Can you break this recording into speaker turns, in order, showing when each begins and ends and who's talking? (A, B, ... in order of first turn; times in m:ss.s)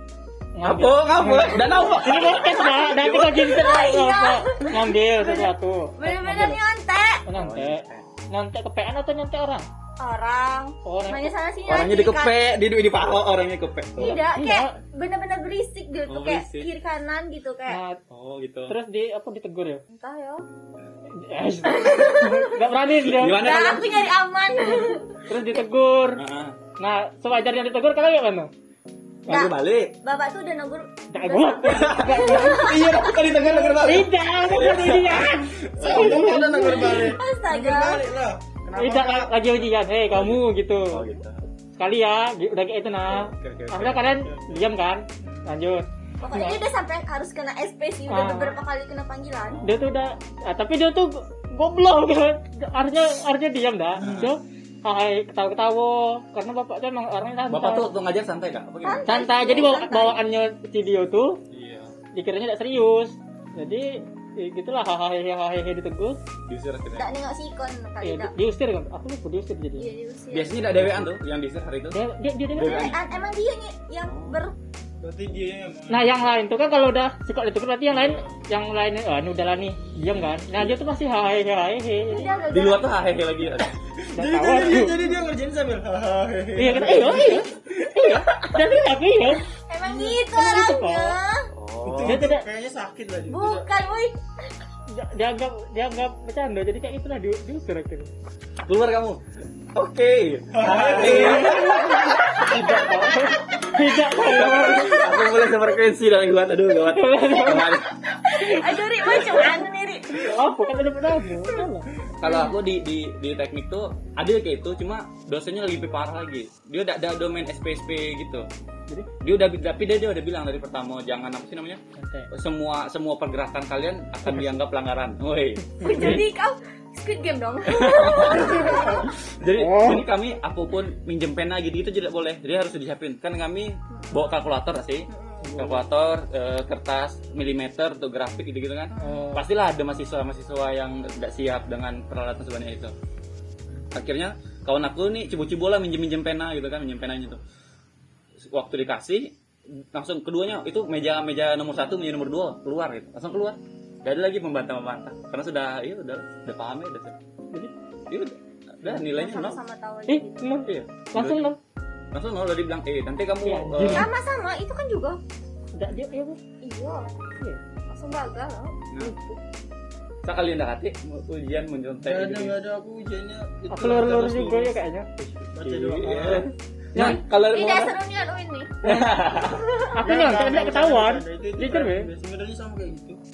0:00.6-0:06.6 A
0:00.6-0:03.5 B
0:03.3-0:07.2 C
0:07.3-0:09.7 A
0:07.3-0:08.1 B
0:10.0-0:12.4 C
0:10.8-0:11.3 A
0:11.7-0:14.2 B
0:14.0-0:17.8 C
0:14.1-0:14.8 A
0:16.1-0:16.7 B
0:17.7-0:18.0 A
0:18.1-0:18.8 B
0:18.7-0:19.8 A
0:19.9-0:20.4 C
0:21.1-0:23.6 A
0:21.6-0:22.6 C
0:23.0-0:23.9 B
0:23.3-0:25.2 C
0:25.3-0:26.2 A
0:26.1-0:26.6 B
0:26.8-0:28.5 A
0:29.3-0:33.2 C
0:29.3-0:29.9 B
0:31.1-0:32.7 A
0:31.7-0:36.2 B
0:33.1-0:33.8 D
0:33.8-0:37.0 A
0:35.5-0:39.6 D
0:36.1-0:38.1 C
0:38.8-0:41.0 A
0:40.1-0:41.4 B
0:41.8-0:46.6 A
0:43.1-0:44.3 B
0:44.3-0:44.6 D
0:45.2-0:45.6 D
0:46.2-0:49.6 C
0:48.1-0:48.5 A
0:49.5-0:49.8 B
0:49.6-0:57.9 A
0:54.0-0:54.3 B
0:54.0-0:54.3 D
0:57.5-0:59.1 B
0:58.8-1:00.2 C
0:59.1-1:01.4 A
1:01.5-1:01.9 B
1:02.1-1:06.2 A
1:06.5-1:07.1 B
1:07.0-1:08.3 C
1:08.0-1:09.9 A
1:09.8-1:10.6 C
1:10.3-1:12.0 B
1:11.9-1:13.0 A
1:12.5-1:13.0 B
1:12.6-1:14.5 C
1:14.0-1:14.4 B
1:15.0-1:16.2 D
1:15.9-1:22.4 A
1:17.9-1:18.3 D
1:20.2-1:20.6 B
1:22.1-1:22.9 C
1:22.5-1:23.7 B
1:24.0-1:27.6 D
1:24.1-1:25.0 A
1:26.6-1:29.5 A
1:27.0-1:27.4 C
1:28.0-1:28.6 B
1:29.7-1:31.5 C
1:29.8-1:30.2 D
1:30.3-1:31.2 A
1:31.5-1:32.2 B
1:31.8-1:33.6 D
1:32.0-1:32.4 A
1:33.3-1:34.5 C
1:34.9-1:38.1 A
1:38.6-1:39.2 B
1:39.7-1:43.3 B
1:40.5-1:41.9 D
1:40.8-1:45.1 A
1:43.9-1:48.6 B
1:46.9-1:47.7 A
1:48.2-1:50.2 C
1:50.2-1:51.9 A
1:52.2-1:58.5 B
1:52.2-1:52.5 C
1:59.2-2:01.8 B
2:02.0-2:02.3 A
2:02.3-2:06.2 B
2:04.2-2:04.6 A
2:05.8-2:06.2 A
2:05.8-2:09.1 C
2:07.7-2:22.9 B
2:08.2-2:10.0 A
2:13.9-2:14.4 C
2:15.1-2:15.4 C
2:15.4-2:15.8 A
2:18.9-2:19.3 C
2:19.0-2:19.5 A
2:23.9-2:27.4 B
2:28.4-2:29.3 B
2:29.9-2:37.2 B
2:38.1-2:39.6 B
2:38.8-2:39.1 A
2:39.0-2:40.6 C
2:40.1-2:41.6 A
2:40.6-2:41.5 B
2:42.1-2:44.1 B
2:43.4-2:44.1 A
2:43.9-2:45.2 C
2:45.7-2:46.4 A
2:46.6-2:47.1 C
2:47.9-2:48.8 C
2:49.0-2:49.4 A
2:50.2-2:52.6 B
2:52.0-2:54.8 D
2:53.7-2:55.3 A
2:55.5-2:56.5 D
2:55.6-2:58.0 B
2:56.1-2:56.4 A
2:56.9-2:57.2 A
2:57.4-2:58.7 C
2:58.8-2:59.6 B
2:59.4-2:59.9 C
2:59.9-3:02.1 A
3:00.0-3:03.2 D